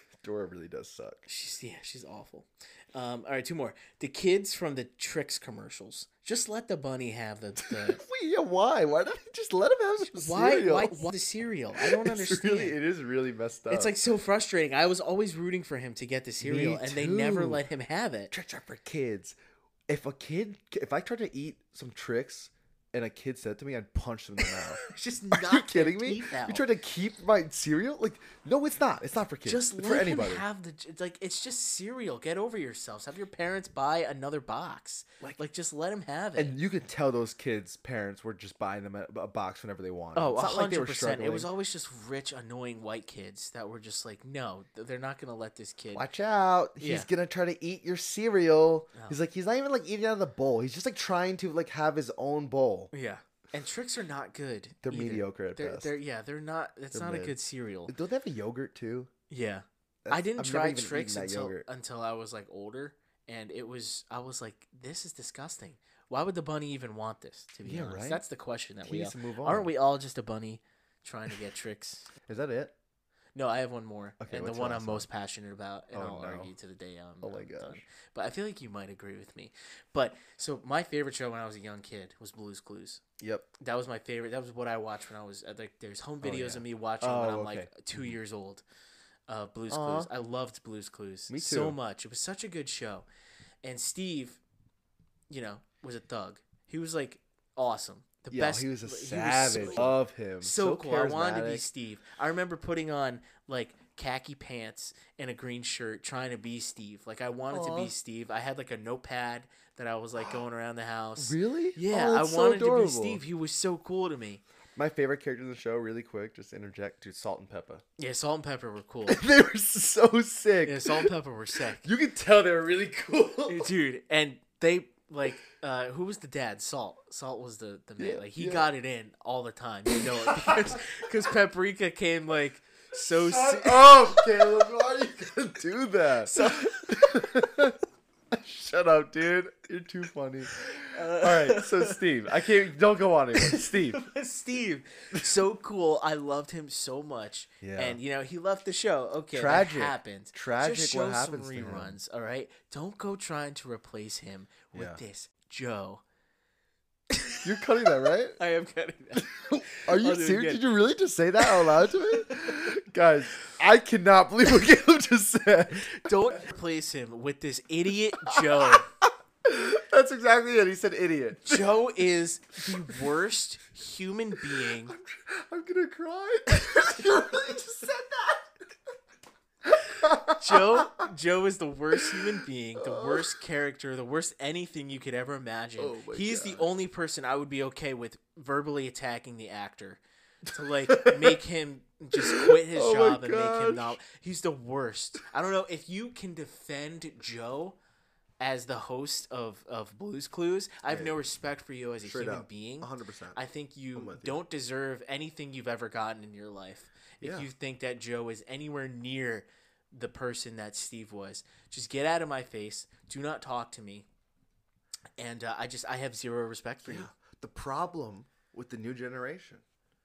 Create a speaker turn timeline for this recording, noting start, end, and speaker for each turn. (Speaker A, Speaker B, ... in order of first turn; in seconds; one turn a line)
Speaker A: 0.2-1.2
Speaker B: 1.3-8.0
Speaker A: 7.6-11.1
Speaker B: 10.2-12.8
Speaker A: 11.7-14.0
Speaker B: 13.7-18.3
Speaker A: 16.4-17.6
Speaker A: 18.3-24.8
Speaker B: 24.4-26.6
Speaker A: 25.3-30.4
Speaker B: 29.4-36.6
Speaker A: 36.4-41.5
Speaker B: 40.1-46.0
Speaker A: 45.9-52.9
Speaker B: 46.8-47.1
Speaker B: 52.9-57.9
Speaker A: 54.8-55.9
Speaker A: 56.9-57.4
Speaker A: 57.9-59.1
Speaker B: 59.3-72.1
Speaker A: 60.0-61.7
Speaker A: 67.7-68.2
Speaker A: 68.8-69.7
Speaker A: 72.3-72.7
Speaker B: 73.3-83.0
Speaker A: 74.2-75.1
Speaker A: 75.9-76.5
Speaker A: 77.2-77.8
Speaker A: 83.2-83.5
Speaker B: 83.6-88.6
Speaker A: 86.2-87.7
Speaker B: 89.3-93.1
Speaker A: 89.7-90.1
Speaker A: 91.3-91.8
Speaker B: 93.6-94.4
Speaker B: 95.3-114.4
Speaker A: 98.3-101.7
Speaker A: 107.5-107.9
Speaker A: 111.2-113.2
Speaker A: 114.8-117.8
Speaker B: 118.0-119.2
Speaker A: 119.1-121.1
Speaker B: 120.7-121.8
Speaker A: 121.8-123.7
Speaker B: 123.5-134.7
Speaker A: 128.0-128.7
Speaker A: 129.9-130.8
Speaker A: 133.0-144.0
Speaker B: 136.2-136.9
Speaker B: 140.8-142.0
Speaker B: 143.3-156.0
Speaker A: 147.6-148.0
Speaker A: 149.3-152.0
Speaker A: 154.7-155.0
Speaker B: 157.1-160.7
Speaker A: 157.4-158.4
Speaker A: 159.2-166.4
Speaker B: 161.4-162.6
Speaker B: 165.9-168.9
Speaker A: 168.2-171.8
Speaker B: 171.4-174.9
Speaker A: 172.7-173.0
Speaker A: 174.4-178.8
Speaker A: 179.7-181.1
Speaker B: 180.3-197.8
Speaker A: 181.9-183.4
Speaker A: 185.8-186.7
Speaker A: 190.9-191.4
Speaker A: 192.2-194.0
Speaker B: 198.4-214.1
Speaker A: 200.9-201.2
Speaker A: 202.0-203.4
Speaker A: 203.9-204.4
Speaker A: 207.2-207.5
Speaker B: 215.2-217.1
Speaker A: 216.8-219.6